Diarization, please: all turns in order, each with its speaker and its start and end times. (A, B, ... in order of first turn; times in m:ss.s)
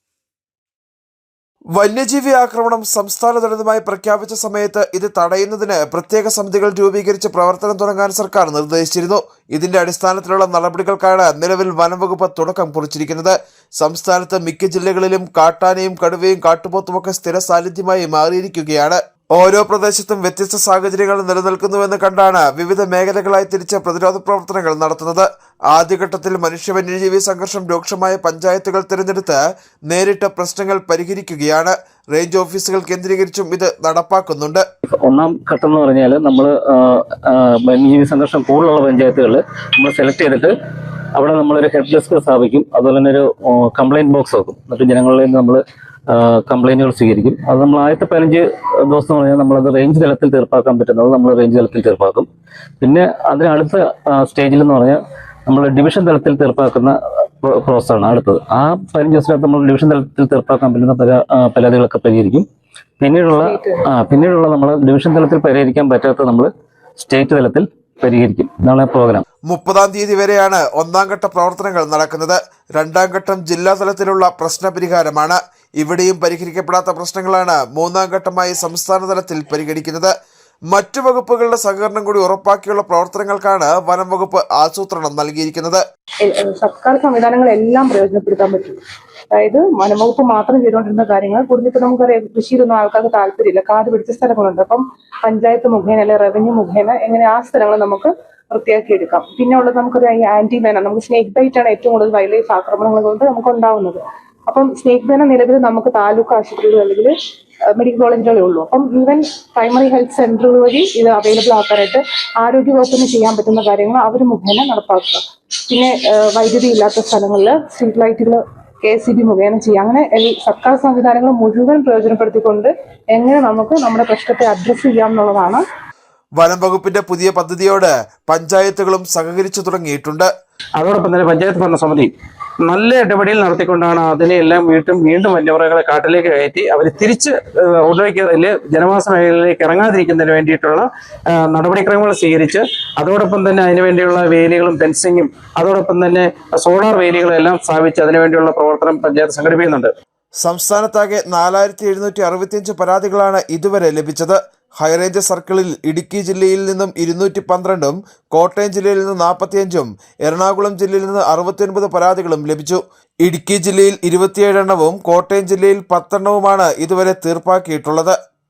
0:01.8-0:34.6 A
0:34.9-0:40.5 B
0:41.1-0:52.3 B
0:52.8-1:02.5 B
1:03.0-1:09.2 B
1:03.4-1:03.8 C
1:09.5-1:20.1 A
1:20.7-1:25.8 A
1:26.2-1:28.8 C
1:29.3-1:47.1 C
1:47.8-2:05.6 C
2:06.4-2:10.3 A
2:10.8-2:12.1 D
2:12.7-2:29.9 D
2:30.4-2:48.2 A